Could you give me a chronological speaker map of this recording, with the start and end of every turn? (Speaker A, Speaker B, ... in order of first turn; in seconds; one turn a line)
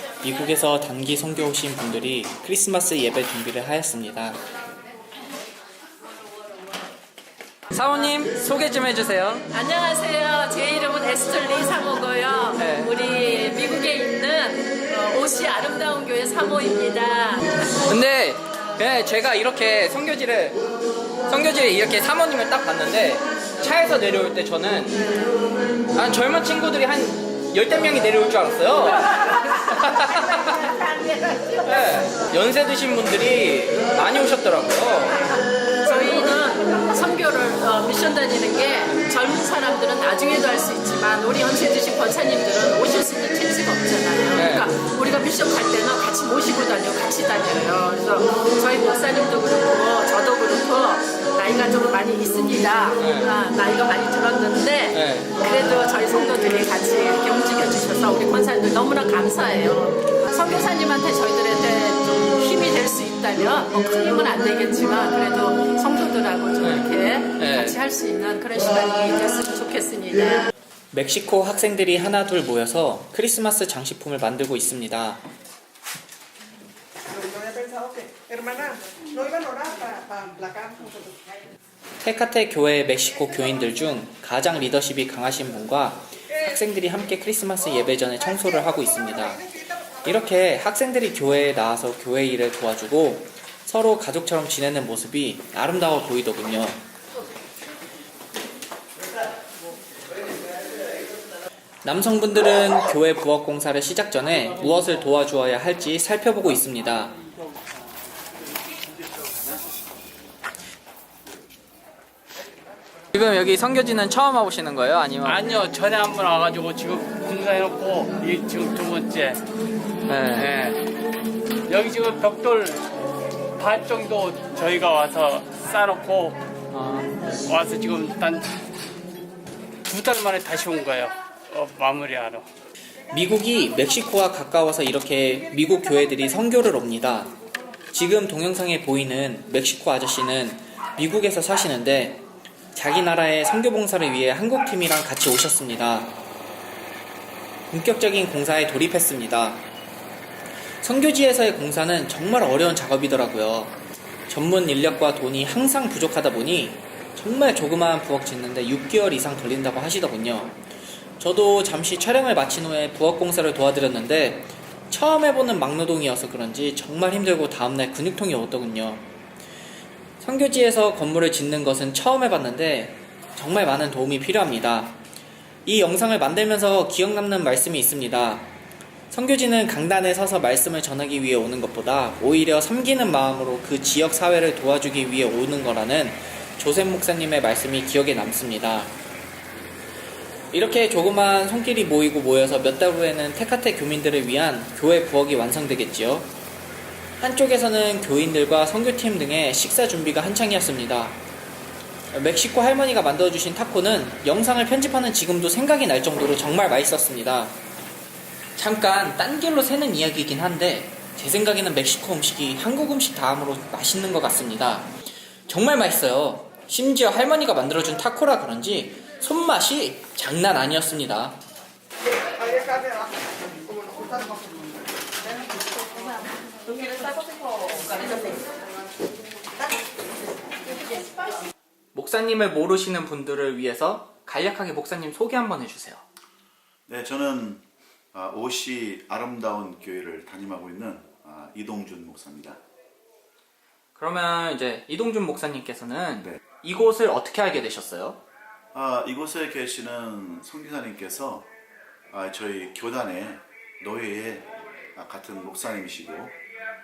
Speaker A: 0.2-4.4
Speaker A: 7.7-9.4
Speaker B: 9.5-17.5
Speaker A: 12.6-12.9
Speaker A: 17.9-20.6
Speaker A: 21.3-25.1
Speaker A: 25.9-30.7
Speaker A: 31.6-35.2
Speaker B: 35.8-70.5
Speaker A: 44.3-44.7
Speaker A: 53.0-53.3
Speaker A: 54.9-55.3
Speaker A: 66.6-67.8
Speaker A: 70.9-75.2
Speaker C: 77.3-81.1
Speaker A: 82.0-89.5
Speaker A: 90.0-96.8
Speaker A: 101.8-107.1
Speaker A: 113.1-115.5
Speaker C: 115.2-119.3
Speaker A: 120.1-120.5
Speaker C: 121.7-122.8
Speaker C: 123.6-126.3
Speaker A: 126.7-127.0
Speaker C: 127.5-128.6
Speaker C: 129.9-132.4
Speaker A: 133.1-137.3
Speaker A: 137.9-146.2
Speaker A: 147.7-149.6
Speaker A: 150.8-153.8
Speaker A: 154.3-160.6
Speaker A: 161.2-169.1
Speaker A: 170.2-175.0
Speaker A: 175.6-178.5
Speaker A: 179.1-188.9
Speaker A: 190.5-196.3
Speaker A: 197.2-201.2
Speaker A: 202.1-207.6
Speaker A: 208.6-214.9
Speaker A: 215.5-221.4
Speaker A: 231.9-236.0
Speaker D: 236.9-242.6
Speaker A: 243.9-248.2
Speaker D: 248.7-251.5
Speaker D: 252.1-256.4